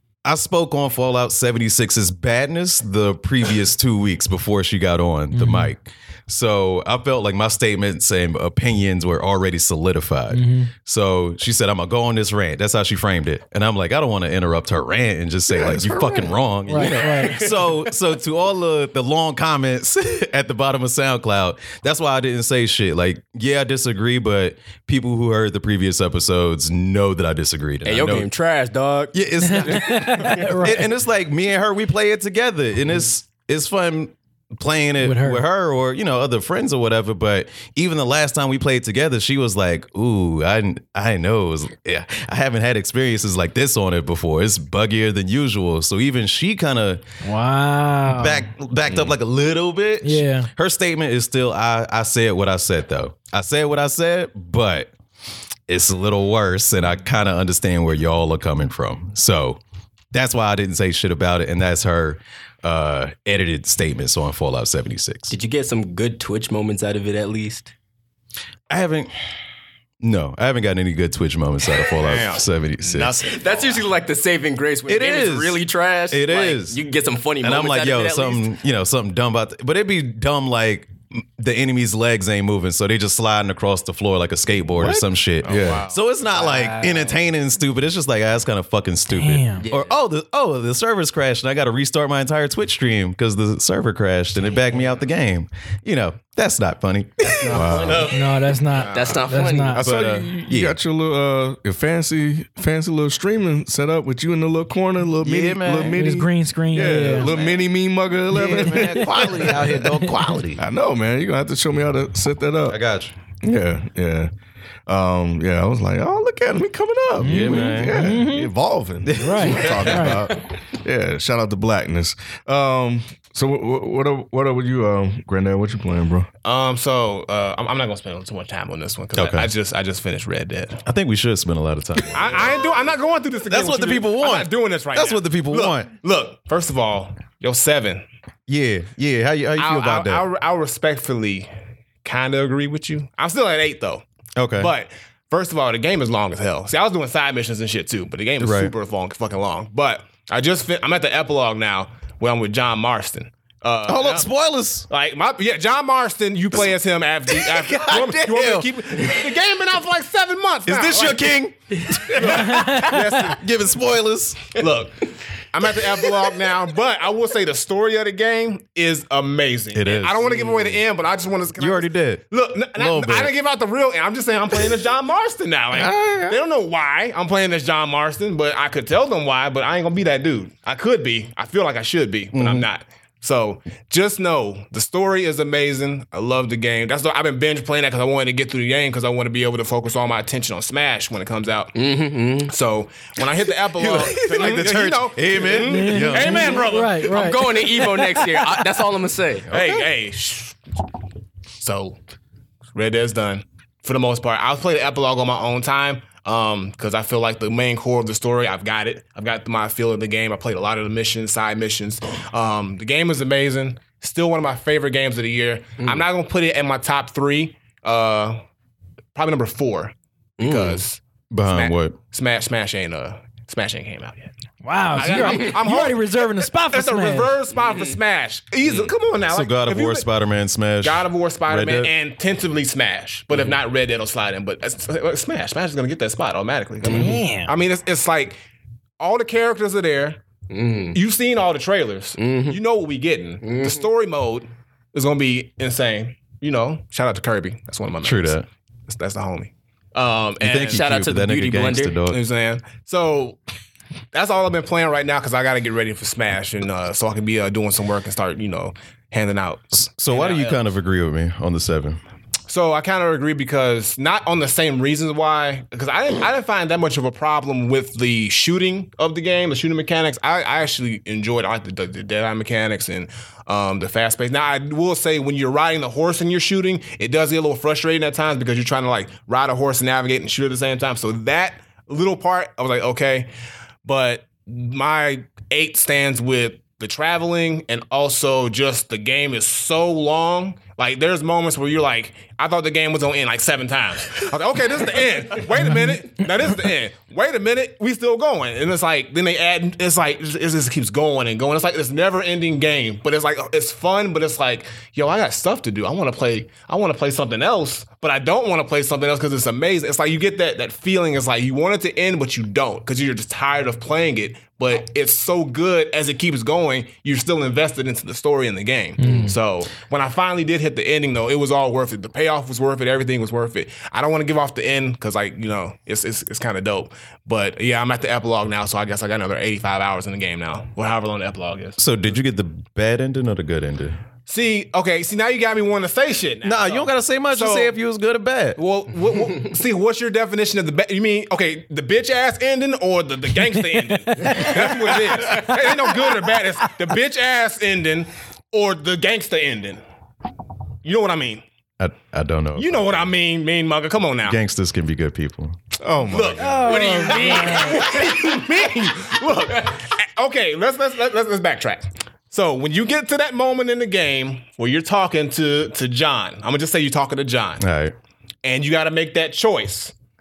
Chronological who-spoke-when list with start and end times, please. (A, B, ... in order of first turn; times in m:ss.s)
0:00.2-0:28.3 A
0:05.3-0:05.7 B
0:10.3-0:10.7 B
0:15.5-0:16.3 C
0:16.7-0:17.4 B
0:16.8-0:17.7 D
0:27.8-0:30.4 D
0:29.1-0:47.0 A
0:29.4-0:30.9 B
0:35.0-0:35.4 B
0:47.2-0:48.5 B
0:48.1-0:54.9 A
0:50.0-0:50.5 B
0:55.7-0:59.6 A
1:00.1-1:05.3 A
1:05.3-1:07.7 D
1:08.7-1:09.1 A
1:10.0-1:13.4 A
1:12.0-1:13.1 E
1:12.9-1:18.5 D
1:14.9-1:16.8 A
1:17.4-1:38.2 A
1:24.8-1:25.9 C
1:25.4-1:26.0 E
1:26.4-1:27.2 D
1:29.1-1:29.6 B
1:29.6-1:29.9 D
1:37.4-1:38.1 D
1:37.5-1:38.1 C
1:37.5-1:38.1 E
1:38.1-1:39.9 B
1:38.7-1:39.5 E
1:38.9-1:39.8 D
1:39.8-1:40.8 A
1:39.8-1:49.6 C
1:45.2-1:46.0 A
1:45.9-1:47.3 B
1:47.2-1:47.5 D
1:48.3-1:50.6 A
1:48.4-1:50.2 B
1:50.6-1:52.8 C
1:52.7-1:53.1 A
1:53.4-1:54.3 C
1:54.9-2:06.3 C
1:57.2-1:58.5 B
1:57.2-1:58.1 A
1:59.2-2:00.2 B
1:59.3-1:59.9 A
2:06.4-2:10.8 E
2:09.1-2:09.5 A
2:10.9-2:12.6 A
2:12.1-2:18.0 E
2:13.5-2:15.9 A
2:18.5-2:20.3 A
2:19.6-2:21.5 E
2:22.0-2:24.0 E
2:24.4-2:24.7 A
2:24.6-2:34.3 E
2:28.4-2:28.7 A
2:33.9-2:34.9 A
2:34.9-2:41.3 E
2:37.3-2:39.4 A
2:40.7-2:44.6 A
2:41.9-2:43.4 E
2:42.2-2:43.3 B
2:44.6-3:11.7 E
2:49.7-2:50.8 A
2:51.6-2:53.3 A
2:55.7-2:56.4 A
3:02.3-3:02.7 A
3:11.8-3:12.5 D
3:12.5-3:17.5 E
3:13.7-3:16.7 A
3:15.6-3:17.6 B
3:17.0-3:19.6 D
3:19.5-3:20.6 E
3:19.5-3:19.8 A
3:21.6-3:22.0 E
3:22.7-3:38.4 E
3:39.2-3:44.3 E
3:40.4-3:40.8 D
3:41.3-3:42.0 A
3:44.6-3:47.3 B
3:45.0-3:50.1 E
3:45.1-3:45.5 D
3:47.6-3:48.0 D
3:49.3-3:51.9 A
3:50.8-3:58.4 E
3:56.8-3:57.2 D
3:56.9-3:57.5 B
3:59.0-4:00.2 E
4:00.5-4:01.0 D
4:00.9-4:10.9 E
4:02.2-4:02.6 D
4:03.4-4:03.9 D
4:08.0-4:08.5 A
4:10.4-4:12.2 A
4:10.7-4:12.0 D
4:12.1-4:13.4 E
4:14.1-4:20.6 E
4:19.7-4:22.0 A
4:22.5-4:43.3 E
4:43.8-5:31.8 E
4:55.6-4:56.0 B
5:19.0-5:19.4 B
5:31.8-5:34.0 A
5:34.3-5:37.7 E
5:36.4-5:38.6 A
5:38.6-5:49.8 E
5:44.1-5:46.0 B
5:50.8-5:51.4 E
5:51.8-5:53.1 A
5:52.6-5:54.4 E
5:54.2-5:55.6 A
5:55.8-5:56.8 C
5:56.0-6:07.6 E
5:56.4-5:57.9 B
5:57.0-5:58.2 D
6:07.6-6:07.9 A
6:08.4-6:09.9 E